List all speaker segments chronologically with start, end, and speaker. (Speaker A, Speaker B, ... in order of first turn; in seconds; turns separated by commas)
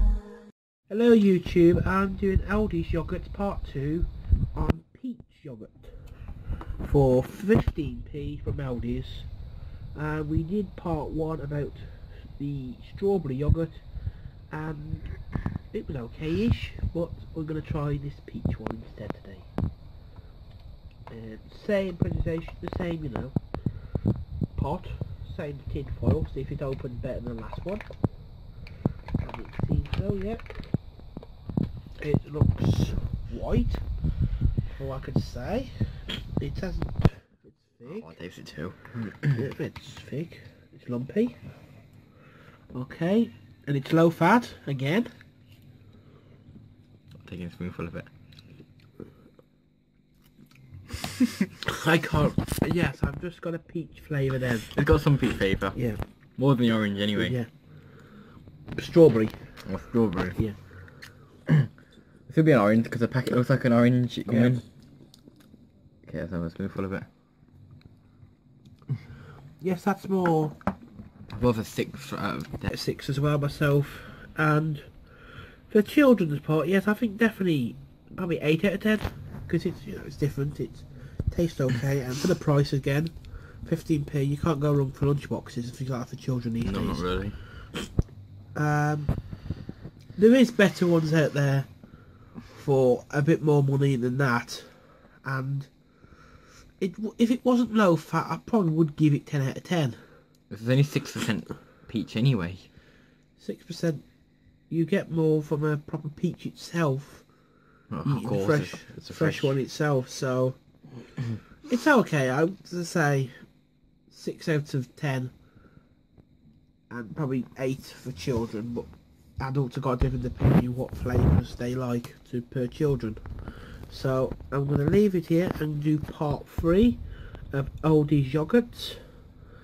Speaker A: 0.9-6.0, Speaker A: 6.8-9.3, Speaker A: 9.9-13.8, Speaker A: 14.5-15.1, Speaker A: 15.7-19.5, Speaker A: 21.1-23.4, Speaker A: 24.5-27.9, Speaker A: 29.2-30.6, Speaker A: 32.0-33.9, Speaker A: 34.7-38.1, Speaker B: 37.9-39.4, Speaker A: 39.3-41.4, Speaker A: 42.7-45.1, Speaker B: 47.2-48.1, Speaker A: 51.6-54.7, Speaker B: 54.7-55.8, Speaker A: 55.7-56.0, Speaker B: 56.4-57.4, Speaker A: 57.1-57.5, Speaker A: 58.7-59.5, Speaker B: 59.6-60.4, Speaker B: 62.3-64.6, Speaker A: 64.3-64.6, Speaker B: 66.0-67.1, Speaker A: 69.6-70.5, Speaker B: 71.3-72.7, Speaker A: 72.7-87.1, Speaker B: 86.6-87.4, Speaker A: 88.5-89.2, Speaker A: 90.2-91.7, Speaker A: 92.4-95.7, Speaker A: 96.8-100.0, Speaker B: 100.5-102.7, Speaker A: 103.4-104.0, Speaker A: 104.7-107.3, Speaker B: 107.9-109.5, Speaker A: 108.0-110.6, Speaker A: 111.6-113.4, Speaker A: 114.1-115.3, Speaker A: 116.9-129.1